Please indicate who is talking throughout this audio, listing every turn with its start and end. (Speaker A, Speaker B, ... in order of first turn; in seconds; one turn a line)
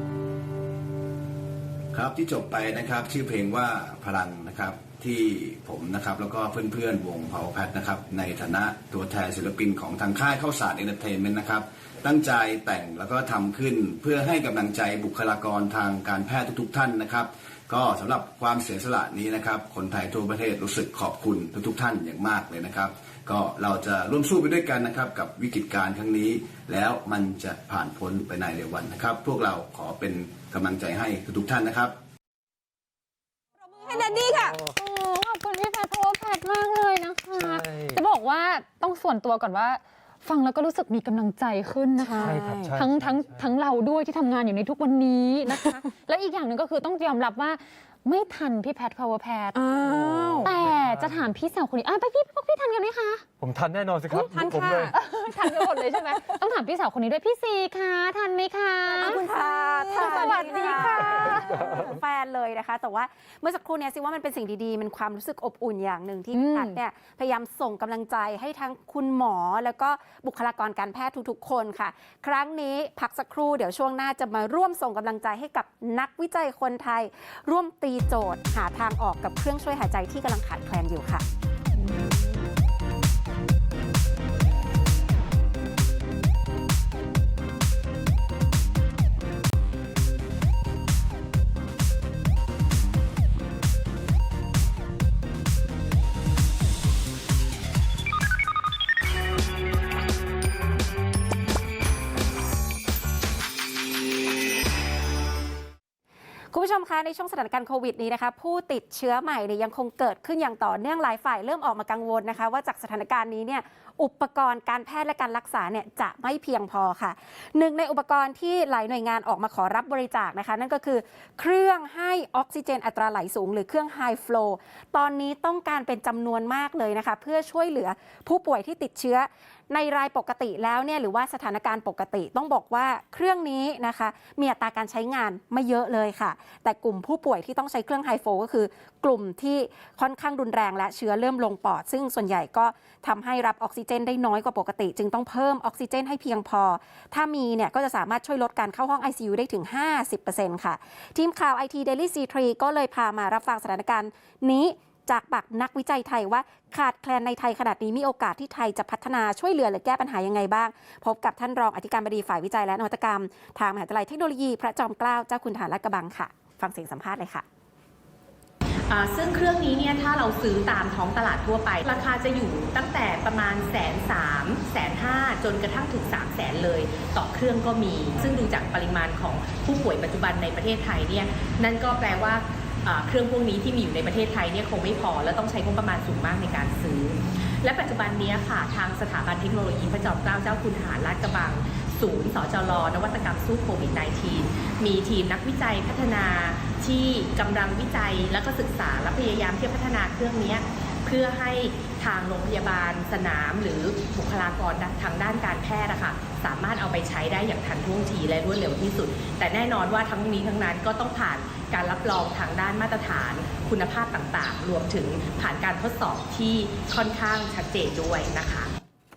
Speaker A: 1.9-31.9
Speaker B: 33.7-34.6
Speaker C: 34.0-34.7
Speaker D: 34.7-49.6
Speaker C: 37.3-38.0
Speaker B: 42.0-42.7
Speaker C: 42.2-43.5
Speaker B: 49.5-50.5
Speaker C: 49.8-51.2
Speaker D: 50.4-53.2
Speaker C: 53.4-54.9
Speaker B: 54.1-55.9
Speaker D: 54.9-61.6
Speaker B: 58.9-61.4
Speaker E: 59.0-81.2
Speaker C: 61.2-61.8
Speaker D: 66.3-66.8
Speaker E: 106.5-167.4
Speaker F: 168.9-218.7